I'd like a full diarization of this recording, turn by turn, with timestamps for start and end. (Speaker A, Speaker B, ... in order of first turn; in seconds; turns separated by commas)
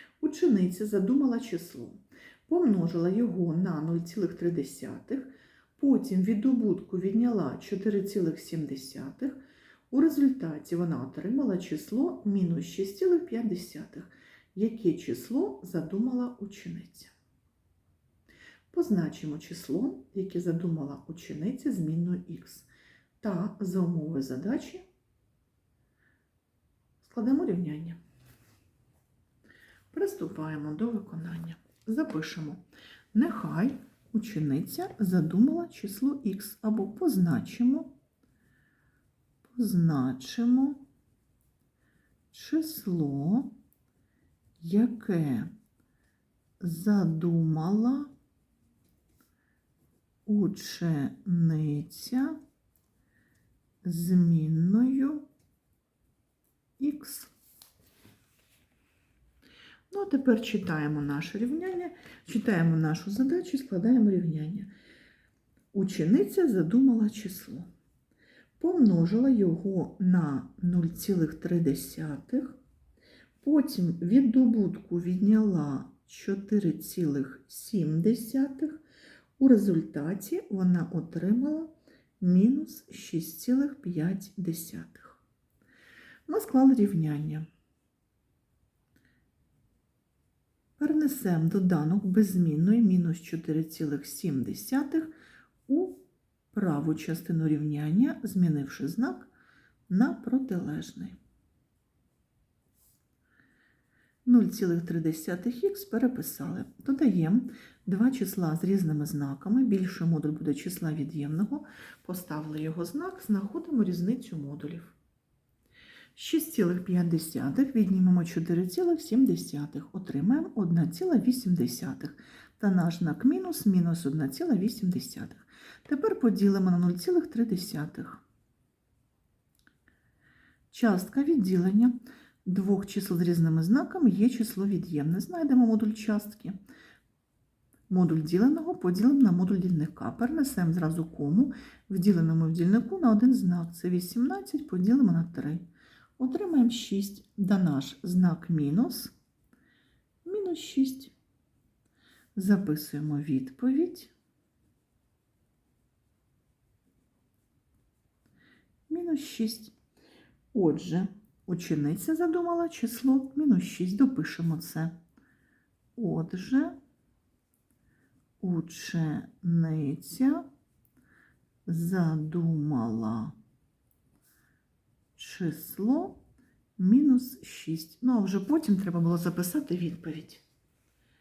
Speaker A: 0.2-9.4, Speaker A: 9.9-17.1, Speaker A: 18.7-22.7, Speaker A: 23.2-24.9, Speaker A: 27.0-28.0, Speaker A: 29.9-37.9, Speaker A: 39.5-40.9, Speaker A: 42.3-43.5, Speaker A: 44.6-45.5, Speaker A: 46.6-48.1, Speaker A: 50.3-52.4, Speaker A: 53.8-55.2, Speaker A: 56.8-57.3, Speaker A: 59.9-64.7, Speaker A: 65.7-67.7, Speaker A: 68.6-72.6, Speaker A: 73.4-78.8, Speaker A: 79.4-85.2, Speaker A: 86.3-87.5, Speaker A: 90.8-95.1, Speaker A: 95.7-99.3, Speaker A: 99.9-101.2, Speaker A: 104.2-115.0, Speaker A: 116.2-128.2, Speaker A: 130.7-136.6, Speaker A: 137.9-145.7, Speaker A: 146.2-149.1, Speaker A: 150.2-151.2, Speaker A: 152.3-154.1, Speaker A: 158.9-159.7, Speaker A: 160.5-165.0, Speaker A: 166.0-166.8, Speaker A: 168.4-170.5, Speaker A: 171.7-173.3, Speaker A: 175.2-176.2, Speaker A: 176.8-180.4